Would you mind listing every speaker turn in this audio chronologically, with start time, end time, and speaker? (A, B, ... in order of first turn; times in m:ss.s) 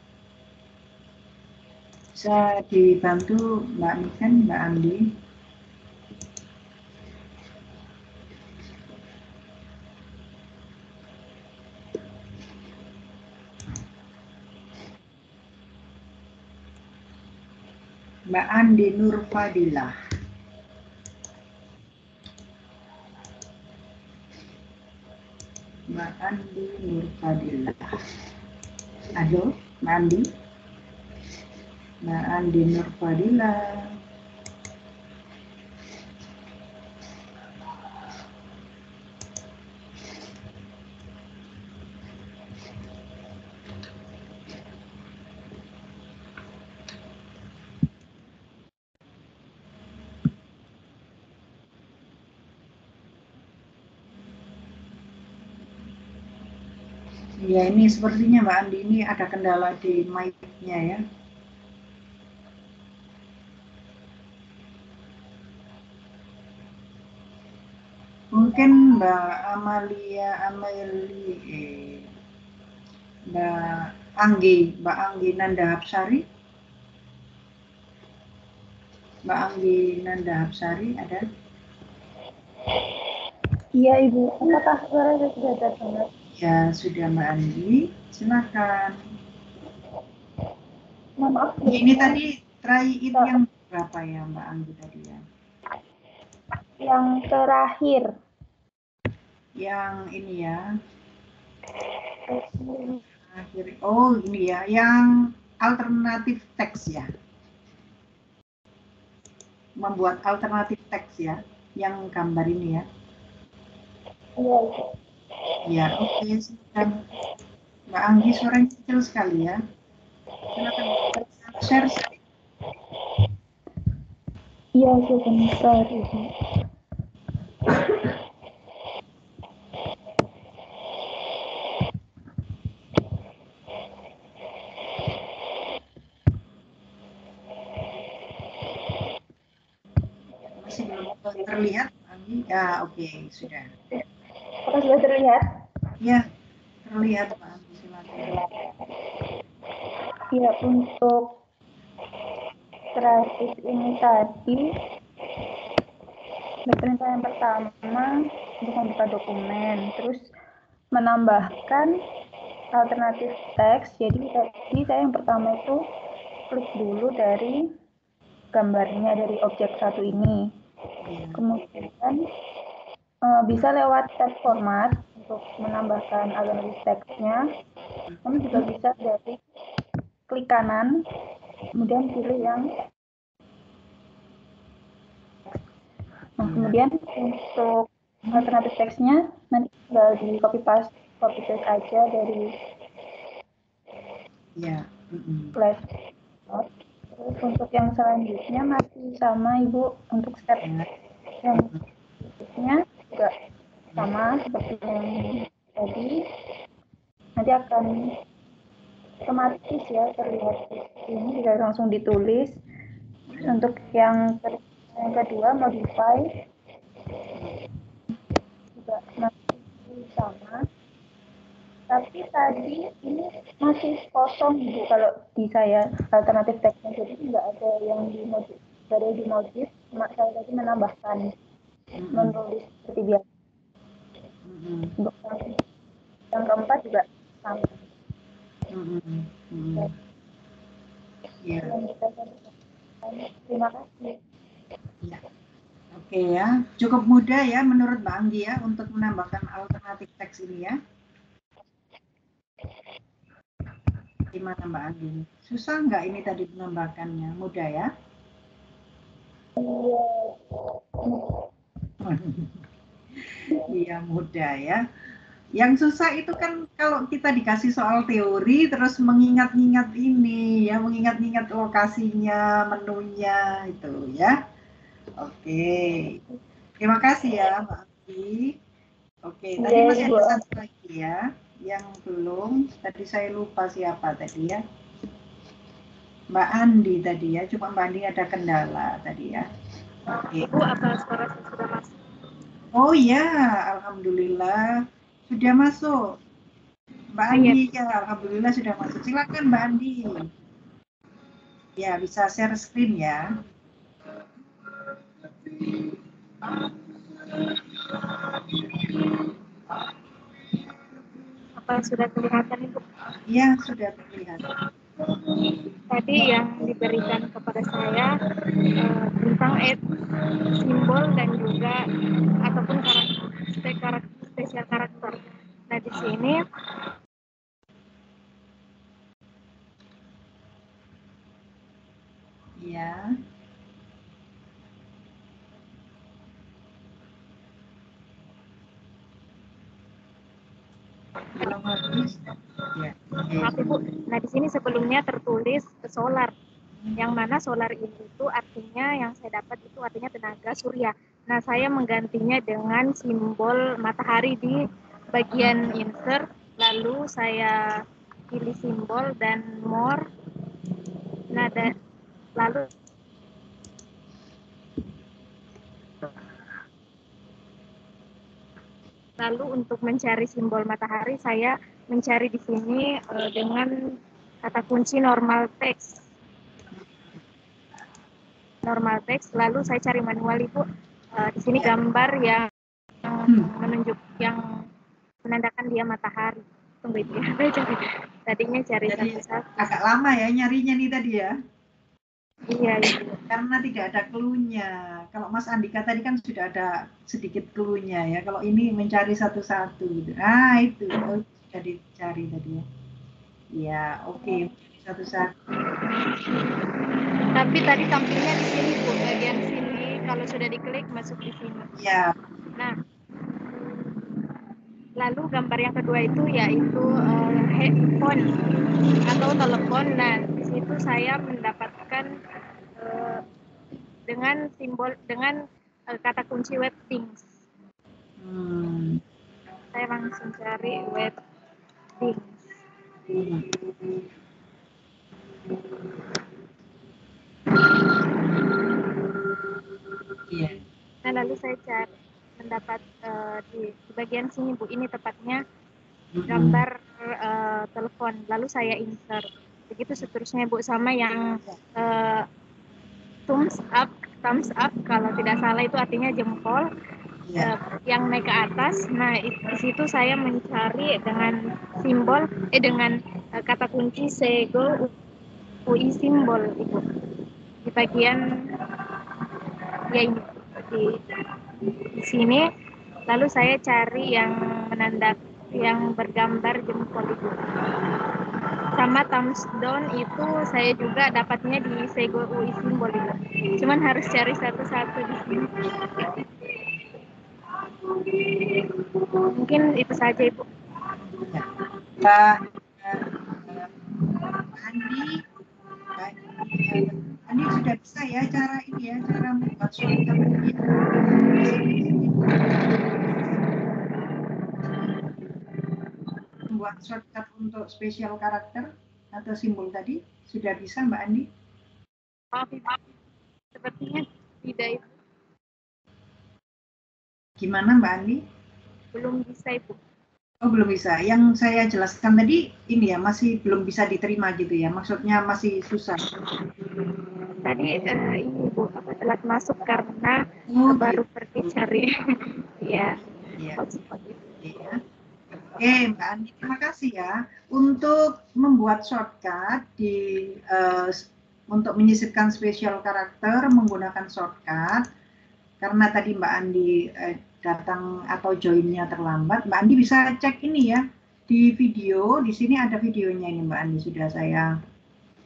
0:02.1-0:05.0 A
0:18.3-0:19.9 A
0:25.9-0:27.9 A
0:29.2-0:30.3 A
0:32.0-0:33.9 A
0:57.4-1:01.0 A
1:08.3-1:12.1 A
1:13.3-1:16.2 A
1:19.3-1:21.2 A
1:23.8-1:26.1 B
1:26.3-1:29.0 A
1:31.2-1:32.2 B
1:31.7-1:35.2 A
1:36.8-1:38.1 B
1:39.6-1:40.7 A
1:42.3-1:43.0 B
1:43.3-1:47.1 A
1:49.8-1:52.8 A
1:54.4-1:54.8 B
1:55.6-1:57.0 A
1:57.9-1:59.6 A
2:00.6-2:02.1 A
2:04.8-2:06.2 B
2:20.6-2:23.7 A
2:24.6-2:25.4 B
2:26.8-2:28.4 A
2:30.3-2:31.4 B
2:32.9-2:34.7 B
2:36.6-2:40.3 B
2:40.9-2:42.0 B
2:42.7-2:45.8 B
2:46.5-2:47.6 B
2:48.5-2:50.5 B
2:51.0-2:51.4 A
2:51.3-2:52.2 B
2:53.2-2:57.4 B
2:58.1-2:58.6 A
2:58.2-2:59.4 B
3:00.3-3:01.0 B
3:01.7-3:02.7 B
3:06.4-3:12.5 B
3:06.4-3:06.8 A
3:14.6-3:15.6 A
3:15.6-3:15.8 B
3:16.5-3:20.7 B
3:20.6-3:20.9 A
3:21.4-3:21.7 B
3:22.4-3:23.3 B
3:24.0-3:26.2 B
3:27.4-3:28.0 B
3:29.3-3:32.6 B
3:33.4-3:36.3 B
3:38.7-3:40.6 B
3:41.9-3:51.3 B
3:52.0-3:52.4 A
3:52.1-3:53.2 B
3:54.5-3:54.9 A
3:55.0-3:55.6 B
3:56.3-3:57.8 B
3:58.7-3:59.9 A
4:01.4-4:01.7 A
4:01.6-4:02.5 B
4:03.0-4:04.1 B
4:05.9-4:10.8 A
4:14.3-4:17.9 A
4:19.6-4:20.4 B
4:21.0-4:21.3 B
4:22.0-4:22.6 A
4:23.4-4:24.8 A
4:25.6-4:34.4 A
4:35.2-4:36.2 A
4:36.8-4:38.5 A
4:39.3-4:44.6 A
4:39.6-4:40.4 B
4:46.3-4:49.4 A
4:50.4-4:51.9 C
4:52.7-4:56.2 A
4:57.2-5:00.3 A
4:57.3-4:57.6 C
5:01.8-5:03.3 A
5:11.6-5:12.8 C
5:13.3-5:14.4 A
5:15.9-5:18.1 C
5:18.8-5:19.8 C
5:20.6-5:21.8 C
5:22.4-5:26.4 C
5:32.6-5:33.1 A
5:41.3-5:42.1 A
5:42.7-5:43.7 A
5:43.4-5:46.3 C
5:47.0-5:54.6 C
5:55.1-5:57.6 C
5:58.3-6:00.0 C
6:01.3-6:01.7 C
6:02.4-6:02.7 C
6:09.2-6:13.7 C
6:14.4-6:16.0 C
6:18.6-6:20.6 C
6:21.1-6:22.5 C
6:23.0-6:24.4 C
6:25.2-6:29.7 C
6:28.8-6:31.3 A
6:32.5-6:33.2 C
6:33.2-6:42.6 A
6:43.5-6:45.4 A
6:47.3-6:51.7 C
6:51.8-6:52.1 A
6:55.0-6:58.2 C
6:59.0-7:02.1 C
7:02.8-7:03.2 C
7:04.1-7:07.3 C
7:08.2-7:09.0 A
7:09.7-7:11.2 C
7:12.0-7:12.6 C
7:13.1-7:13.4 A
7:20.3-7:20.6 A
7:21.0-7:25.4 C
7:26.1-7:26.6 A
7:26.3-7:32.2 C
7:33.3-7:36.6 C
7:37.2-7:37.5 A
7:37.4-7:44.9 C
7:45.6-7:46.8 C
7:47.6-7:48.2 C
7:49.9-7:51.0 C
7:51.8-7:52.4 C
7:53.1-7:57.6 C
7:58.7-8:05.6 C
8:09.3-8:10.4 C
8:11.1-8:11.4 A
8:12.0-8:13.8 A
8:14.4-8:15.2 A
8:16.0-8:23.5 A
8:26.5-8:31.3 A
8:32.3-8:32.8 C
8:33.5-8:34.9 C
8:37.4-8:38.2 A
8:38.9-8:39.8 C
8:40.4-8:46.0 A
8:47.4-8:53.0 C
8:50.5-8:51.5 A
8:53.6-8:54.2 C
8:54.4-8:54.8 A
8:55.5-9:04.8 A
9:05.6-9:14.5 A